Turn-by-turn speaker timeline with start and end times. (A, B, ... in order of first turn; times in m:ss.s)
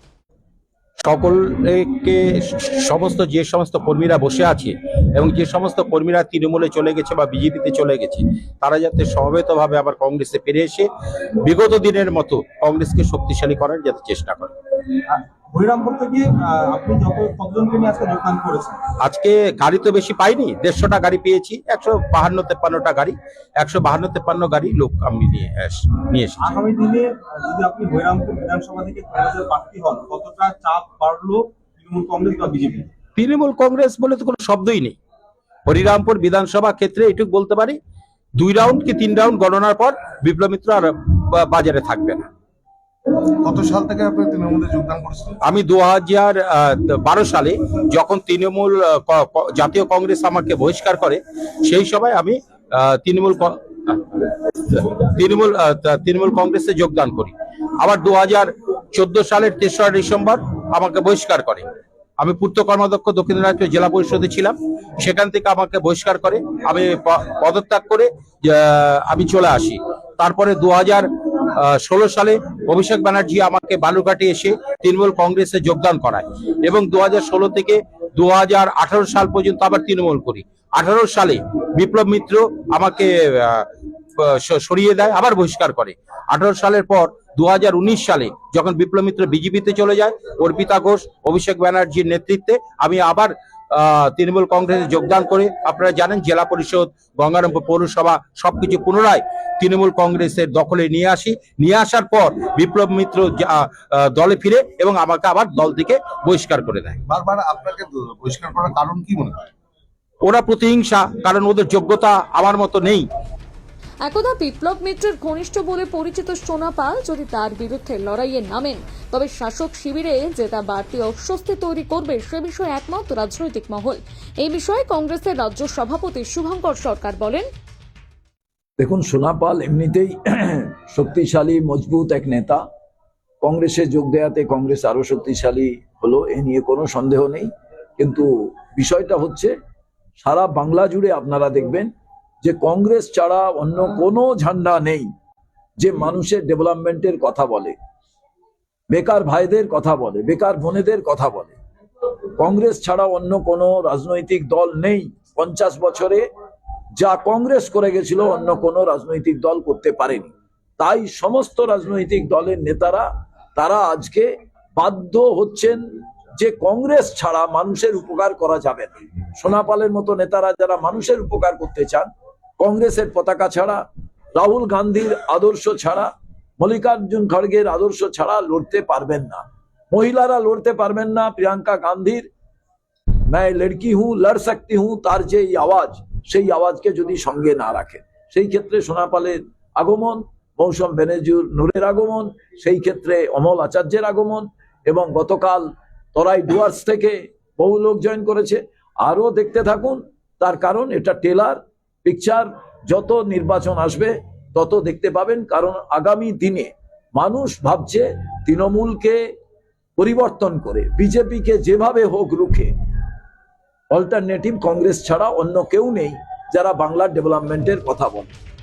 0:01.0-0:14.5 A
0:15.1-0:18.8 B
0:19.0-0:26.5 A
0:26.4-0:32.9 B
0:33.2-0:35.0 A
0:35.7-0:37.8 A
0:38.4-0:42.3 A
0:43.4-0:45.4 C
0:45.4-1:01.7 A
1:02.2-1:23.7 A
1:24.2-1:47.0 A
1:47.1-1:49.5 C
1:50.2-1:53.1 A
1:54.0-2:07.5 D
2:08.8-2:12.6 E
2:13.4-2:19.5 E
2:20.2-2:21.9 E
2:22.4-2:25.1 E
2:25.8-2:27.8 E
2:28.9-2:31.6 E
2:32.4-2:36.2 E
2:37.0-2:45.8 E
2:46.4-2:53.8 E
2:54.4-3:02.3 E
3:03.3-3:29.2 E
3:30.0-3:32.7 E
3:33.9-3:38.3 E